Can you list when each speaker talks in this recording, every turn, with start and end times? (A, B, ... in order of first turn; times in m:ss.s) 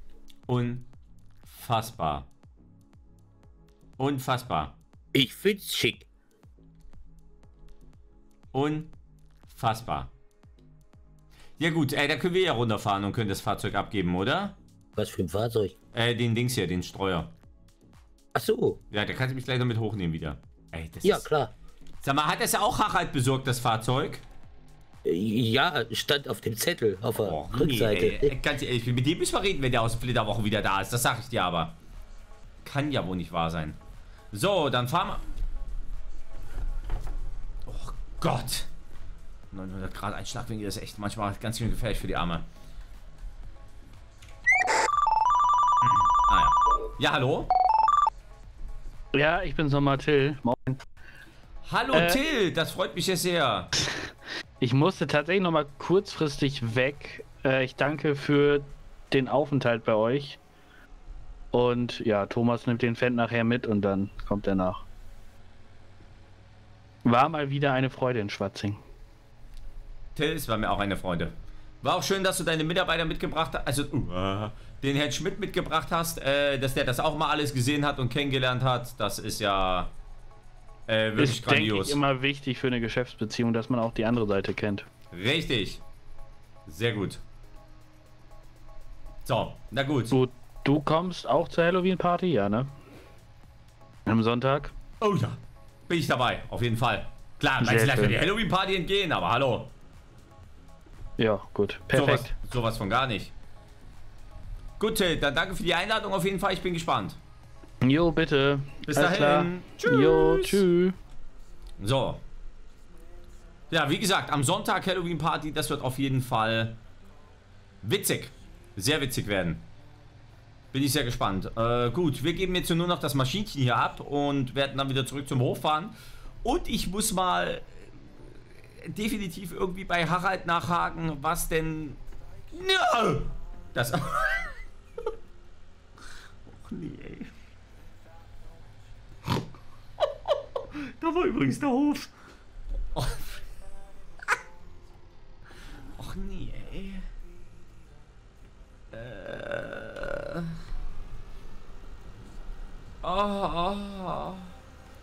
0:00.5-0:00.9 A
0:01.5-0:02.3 A
0:04.0-0:04.8 A
0:05.1-0:06.1 B
0:08.5-0:08.9 A
0:09.5-0:10.1 A
0:11.6-0:14.6 A
0:15.0-0:15.8 B
0:15.9-0:17.3 A
0:18.4-0:18.8 B
0:18.9-0:21.3 A
0:21.0-0:21.5 B
0:22.0-0:24.2 A
0:25.0-0:28.3 B
0:27.2-0:31.8 A
0:32.6-0:33.8 A
0:34.3-0:35.2 A
0:37.7-0:38.7 A
0:39.5-0:42.4 A
0:46.3-0:47.5 A
0:49.1-0:50.8 C
0:51.6-0:53.7 A
0:51.9-0:52.2 C
0:54.6-1:00.4 C
1:01.5-1:04.8 C
1:07.0-1:08.8 C
1:10.2-1:19.9 A
1:20.9-1:22.0 A
1:21.2-1:24.9 C
1:25.1-1:25.8 A
1:26.7-1:27.2 A
1:29.2-1:30.2 A
1:30.1-1:32.7 C
1:34.1-1:34.7 C
1:35.0-1:39.7 A
1:37.6-1:38.2 C
1:41.2-1:42.3 C
1:41.9-1:43.3 A
1:44.8-1:47.2 A
1:47.8-1:51.0 C
1:48.9-1:50.6 A
1:51.8-1:52.2 A
1:53.7-1:56.8 A
1:57.8-1:59.7 A
2:00.7-2:12.0 A
2:12.5-2:14.6 A
2:16.5-2:17.3 A
2:20.8-2:22.1 A
2:23.0-2:23.4 A
2:26.0-2:27.1 A
2:28.9-2:30.5 A
2:33.0-2:34.5 A